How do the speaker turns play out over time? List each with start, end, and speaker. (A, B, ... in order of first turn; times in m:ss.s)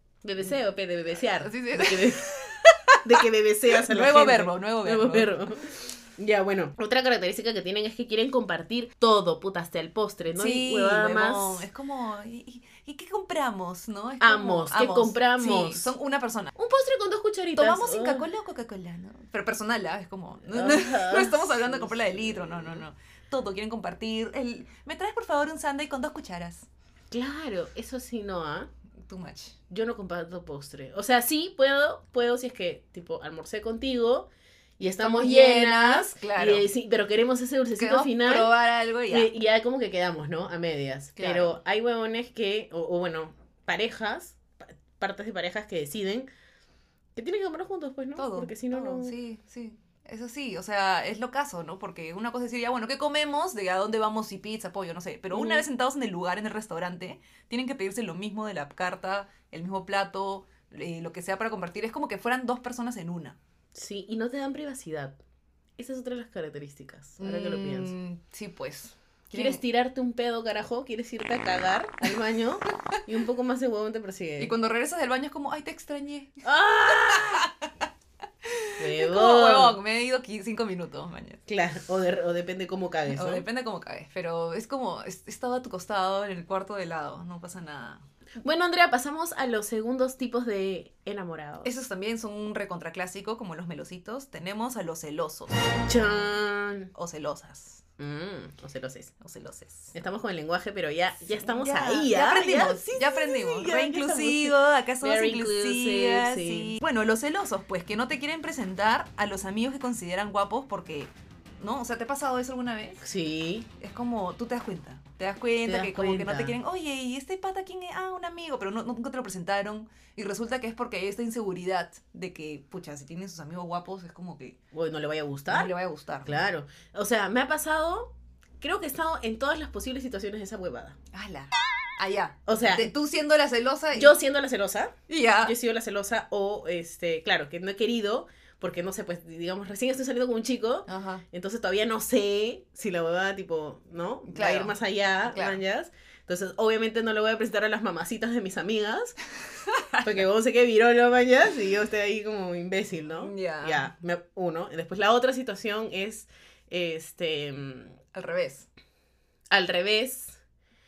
0:00.2-0:02.4 A
0:01.4-0:03.2 B
0:03.0-0:11.7 A
0:03.7-0:05.4 B
0:10.3-0:16.5 B
0:14.2-0:15.9 A
0:16.5-0:18.3 A
0:17.6-0:26.7 B
0:20.5-0:22.8 A
0:27.1-0:28.7 A
0:29.0-0:29.6 B
0:29.7-0:34.3 A
0:34.8-0:38.5 A
0:34.8-0:36.7 B
0:37.8-0:39.3 B
0:39.1-0:44.4 A
0:41.2-0:41.6 B
0:45.0-0:46.3 A
0:47.1-0:49.1 A
0:48.2-1:03.4 B
0:55.3-0:55.6 A
1:03.7-1:05.2 A
1:05.8-1:07.9 A
1:07.2-1:09.6 B
1:09.3-1:14.5 A
1:14.4-1:17.7 B
1:16.4-1:17.5 A
1:18.4-1:21.4 B
1:18.8-1:19.8 A
1:21.5-1:23.4 A
1:23.1-1:28.0 B
1:28.4-1:31.7 A
1:31.6-1:35.6 B
1:35.9-1:36.9 A
1:36.9-1:37.8 B
1:38.0-1:39.1 A
1:39.2-1:39.9 B
1:39.9-1:46.8 A
1:41.4-1:53.0 B
1:53.0-1:53.7 A
1:53.8-2:04.6 B
1:55.6-1:56.5 A
2:04.7-2:05.7 A
2:05.5-2:06.4 B
2:06.2-2:11.0 A
2:11.1-2:14.2 B
2:12.5-2:12.9 A
2:13.9-2:29.2 A
2:15.1-2:15.5 B
2:20.9-2:21.2 B
2:24.3-2:24.8 B
2:25.3-2:25.6 B
2:29.6-2:30.1 B
2:30.0-2:38.0 A
2:33.2-2:33.9 B
2:38.1-2:38.7 B
2:39.5-2:40.4 A